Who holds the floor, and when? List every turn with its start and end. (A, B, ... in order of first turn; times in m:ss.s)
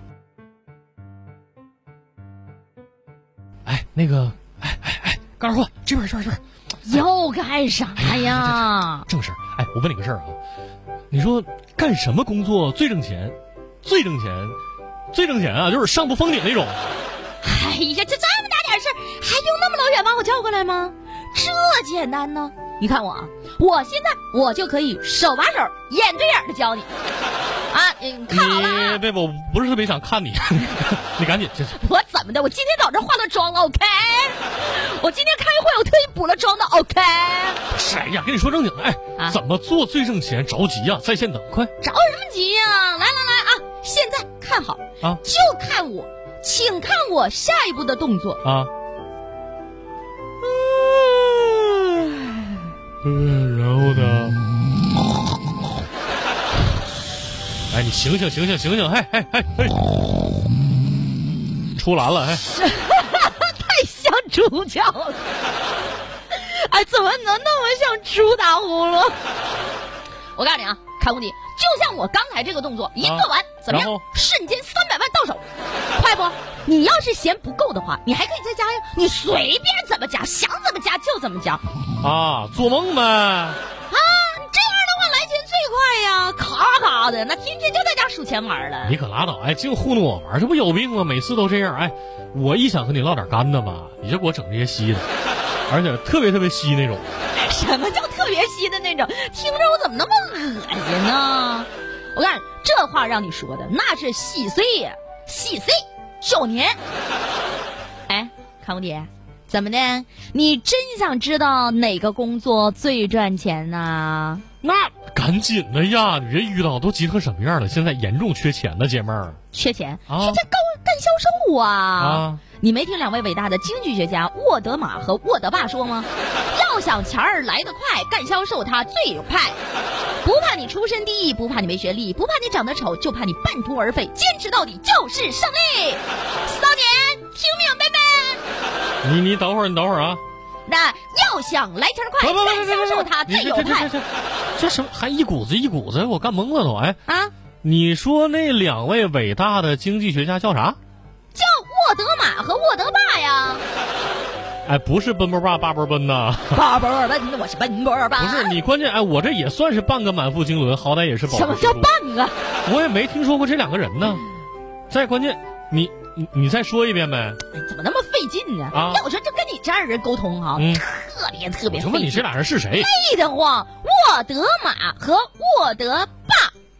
0:03.6-0:06.4 A
0:06.9-0:09.1 B
0:08.0-0:10.4 A
0:11.1-0:14.6 A
0:15.1-0:16.8 A
0:17.4-0:26.9 B
0:27.7-0:29.0 B
0:28.3-0:31.8 A
0:31.7-0:37.6 B
0:37.7-0:41.7 A
0:41.8-0:48.4 B
0:48.4-0:48.7 A
0:50.8-0:52.1 A
0:53.0-0:54.4 A
0:57.7-0:59.9 A
1:01.8-1:02.4 A
1:02.5-1:05.2 B
1:06.3-1:09.2 B
1:10.4-1:15.4 B
1:13.0-1:14.0 A
1:16.0-1:21.6 B
1:22.0-1:23.6 A
1:23.9-1:29.0 B
1:28.8-1:35.1 A
1:35.7-1:37.1 A
1:37.4-1:46.8 B
1:48.1-1:54.4 B
1:54.6-1:59.4 A
1:59.5-2:09.6 B
2:00.1-2:00.4 A
2:02.0-2:02.4 A
2:10.2-2:18.4 B
2:19.0-2:20.2 A
2:20.7-2:23.9 B
2:22.2-2:27.0 A
2:27.1-2:27.3 B
2:27.6-2:30.8 A
2:31.3-2:33.6 B
2:34.7-2:36.6 A
2:36.5-2:38.5 B
2:38.2-2:41.9 A
2:41.3-2:42.4 B
2:42.6-2:44.2 A
2:44.9-2:47.4 A
2:47.5-2:56.5 B
2:48.7-2:49.0 A
2:50.6-2:50.8 A
2:51.7-2:52.9 A